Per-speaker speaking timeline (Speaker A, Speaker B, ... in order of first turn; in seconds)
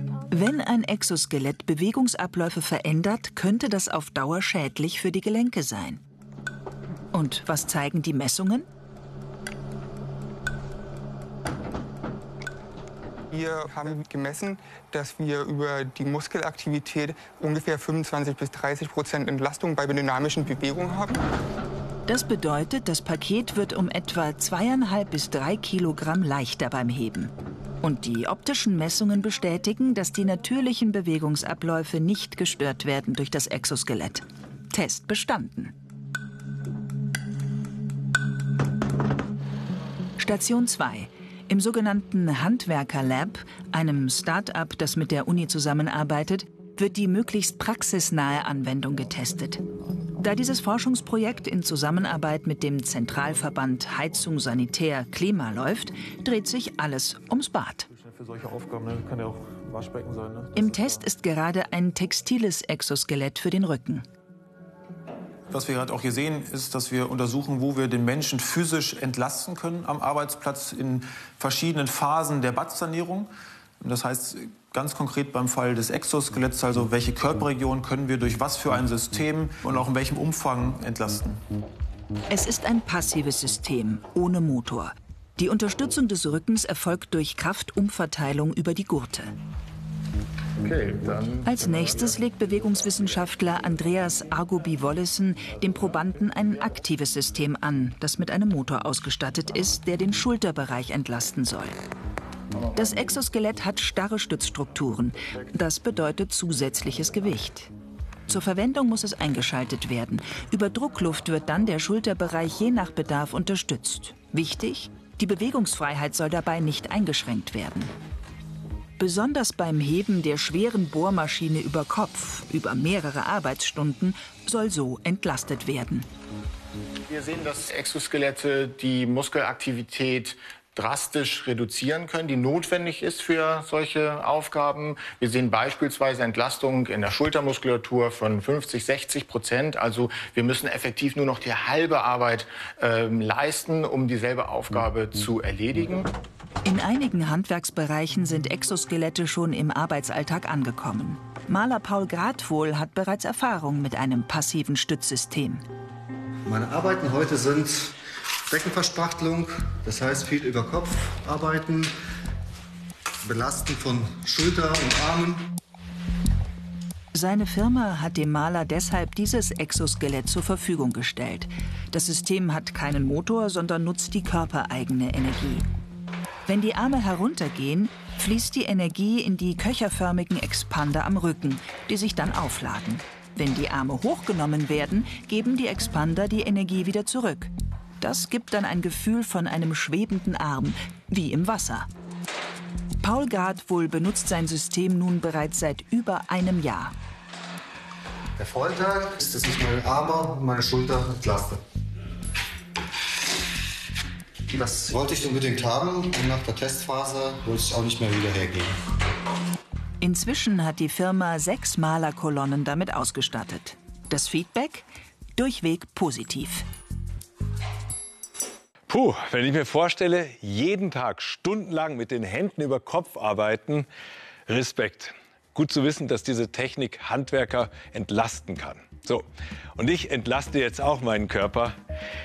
Speaker A: 0.3-6.0, 7.1-8.7, 22.1-35.7, 40.2-49.6, 50.2-57.9, 60.5-64.0, 82.3-89.3, 91.4-101.8, 102.7-107.7, 108.3-117.9, 119.0-126.1, 146.6-155.7, 167.1-175.7, 176.4-191.9, 193.0-196.9, 210.0-214.8, 215.4-216.7
Speaker B: 13.3-21.2
Speaker C: 57.9-61.0, 65.5-81.4
Speaker D: 90.6-91.4, 127.0-146.1
Speaker E: 156.4-161.9, 163.2-165.5, 198.4-201.6, 204.5-208.8
Speaker F: 218.9-223.9, 224.5-231.8